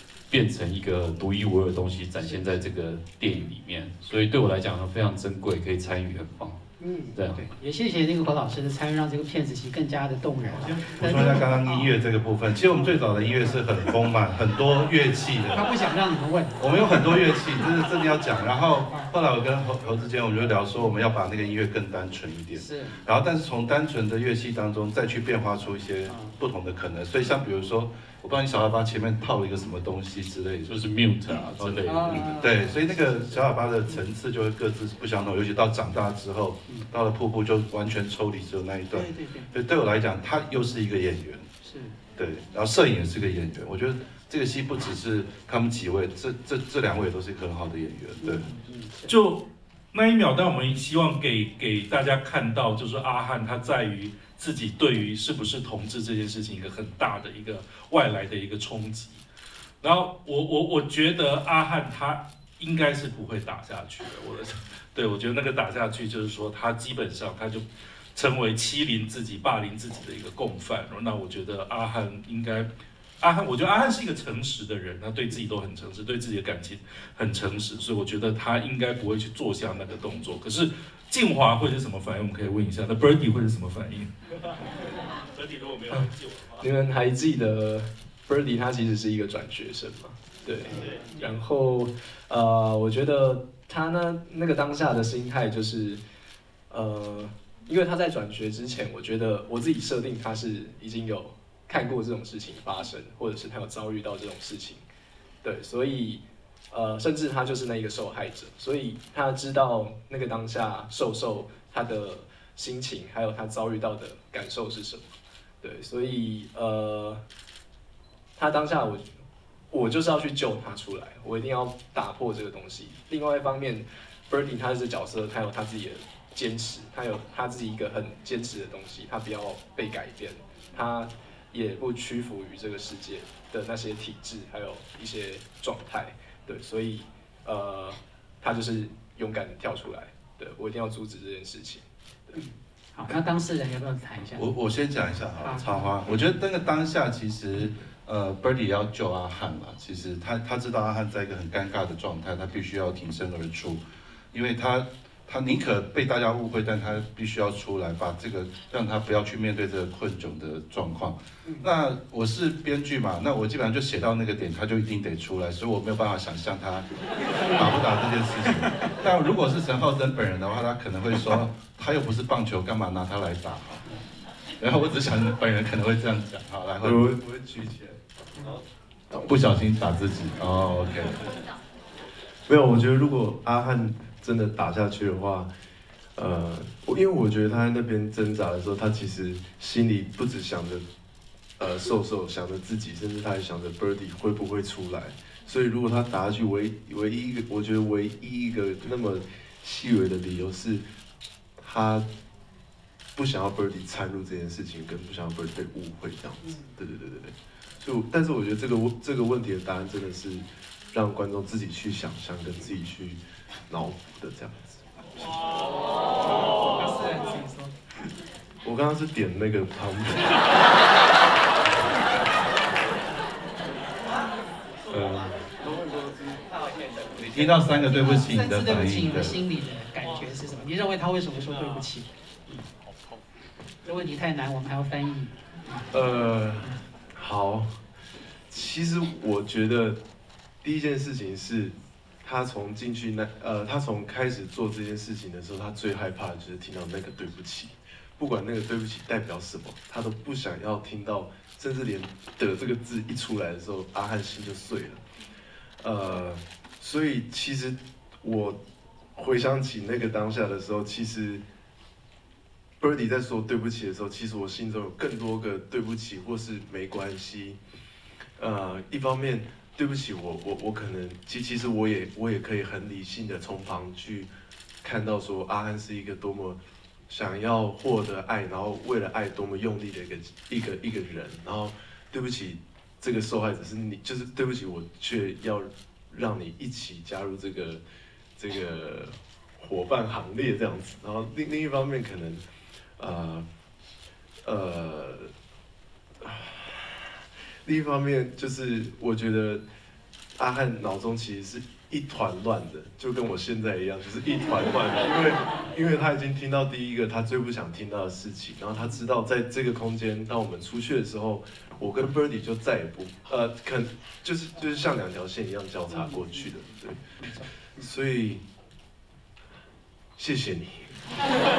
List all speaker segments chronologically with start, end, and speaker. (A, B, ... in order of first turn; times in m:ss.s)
0:00.3-0:06.6 A
0:02.2-0:02.6 B
0:06.8-0:11.9 B
0:07.1-0:07.5 A
0:10.7-0:15.7 C
0:15.5-0:17.0 B
0:16.6-0:30.7 C
0:22.6-0:23.0 B
0:26.1-0:26.3 B
0:30.7-0:32.5 A
0:31.6-0:41.5 C
0:31.8-0:34.0 B
0:38.9-0:39.5 B
0:41.6-0:41.9 B
0:42.2-0:48.4 C
0:48.2-0:49.1 B
0:49.1-0:59.2 D
0:59.8-1:07.6 D
1:08.1-1:12.7 D
1:13.2-1:24.1 D
1:25.4-1:26.4 D
1:25.9-1:36.0 E
1:36.7-1:44.8 E
1:45.4-1:57.2 E
1:58.4-1:59.1 E
1:59.7-2:22.4 E
2:22.4-2:24.4 B
2:24.4-2:33.8 C
2:25.4-2:25.9 B
2:34.3-2:46.9 C
2:47.5-2:53.8 C
2:54.6-2:57.0 C
2:56.8-2:58.0 F
2:59.2-3:01.2 C
3:02.5-3:05.5 F
3:06.2-3:10.8 F
3:11.6-3:20.8 F
3:21.6-3:22.0 F
3:23.1-3:35.4 F
3:26.4-3:26.7 B
3:36.8-3:37.7 B
3:38.6-3:40.4 F
3:44.9-3:45.3 F
3:47.3-3:49.4 C
3:47.7-3:52.6 B
3:53.8-3:55.8 B
3:55.9-3:57.8 F
3:58.5-4:00.0 F
4:00.6-4:15.0 F
4:15.8-4:18.6 F
4:19.1-4:21.4 F
4:22.8-4:27.6 F
4:28.4-4:34.3 F
4:34.8-4:47.8 F
4:48.4-4:52.4 F
4:53.0-4:53.4 F
4:54.4-4:55.3 F
4:56.2-4:57.0 F
4:57.6-4:59.6 F
5:00.4-5:17.0 F
5:17.8-5:18.4 F
5:20.2-5:20.9 F